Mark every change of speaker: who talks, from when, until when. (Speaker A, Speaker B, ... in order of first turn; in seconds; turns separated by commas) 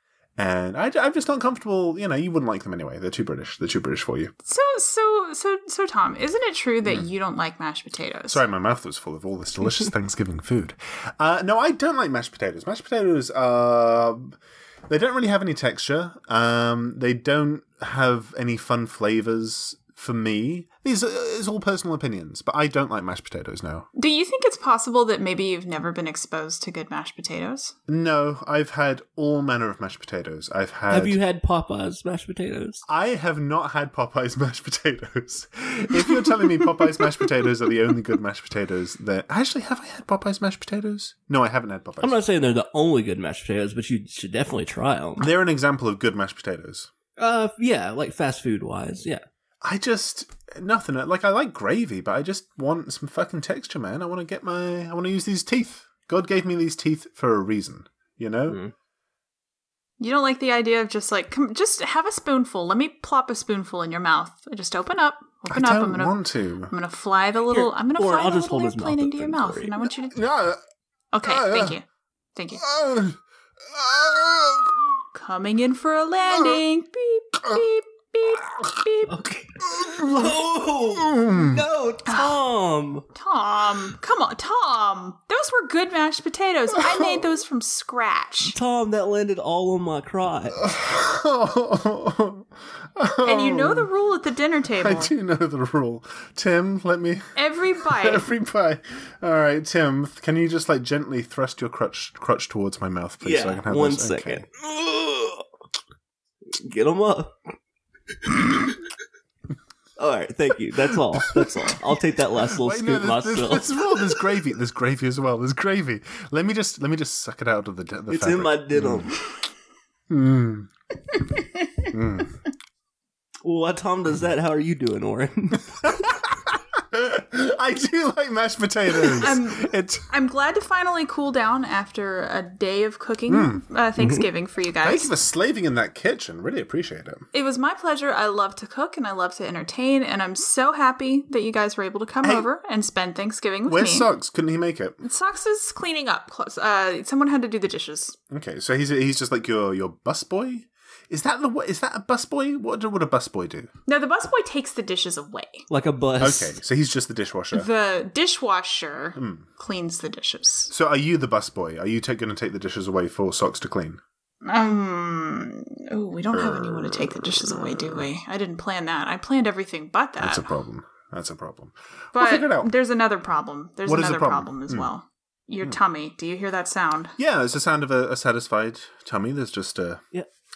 Speaker A: 0.4-4.3, Speaker B: 4.4-8.4, Speaker A: 8.3-14.4, Speaker A: 14.9-23.9, Speaker B: 23.9-27.7, Speaker A: 27.9-31.2, Speaker C: 30.9-32.8, Speaker A: 32.9-42.2, Speaker C: 42.0-45.3, Speaker A: 45.2-46.9, Speaker C: 47.2-49.2, Speaker A: 49.6-58.6, Speaker B: 60.0-70.2, Speaker A: 65.5-66.7, Speaker C: 67.5-69.7, Speaker A: 70.1-70.6, Speaker B: 71.1-71.8, Speaker A: 71.2-71.8, Speaker B: 72.3-72.6, Speaker A: 72.6-75.0, Speaker B: 75.1-79.2, Speaker C: 79.1-83.0, Speaker A: 79.6-80.3, Speaker A: 80.9-81.6, Speaker B: 82.0-82.3, Speaker B: 83.1-88.5, Speaker A: 86.7-87.2, Speaker C: 88.5-90.6, Speaker A: 90.6-93.9, Speaker B: 93.2-95.1, Speaker A: 94.8-104.4, Speaker B: 97.3-98.3, Speaker C: 103.2-105.5, Speaker C: 106.5-107.3, Speaker C: 108.2-108.8, Speaker C: 110.0-113.9, Speaker A: 110.8-111.8, Speaker A: 112.3-119.1, Speaker C: 118.1-119.2, Speaker A: 120.1-120.7, Speaker A: 121.9-122.4, Speaker C: 123.4-125.8, Speaker A: 125.8-130.1, Speaker B: 129.1-135.1, Speaker A: 133.3-133.6, Speaker C: 134.0-134.2, Speaker A: 134.8-137.2, Speaker B: 137.3-144.1, Speaker A: 143.7-145.0, Speaker B: 145.0-148.2, Speaker A: 148.3-153.7, Speaker B: 153.9-155.7, Speaker C: 155.7-156.6, Speaker A: 156.2-157.7, Speaker B: 157.5-160.7, Speaker A: 159.2-159.5, Speaker A: 160.7-164.0, Speaker B: 164.4-170.5, Speaker A: 170.2-172.7, Speaker B: 172.1-177.1, Speaker A: 173.8-174.9, Speaker A: 177.2-180.0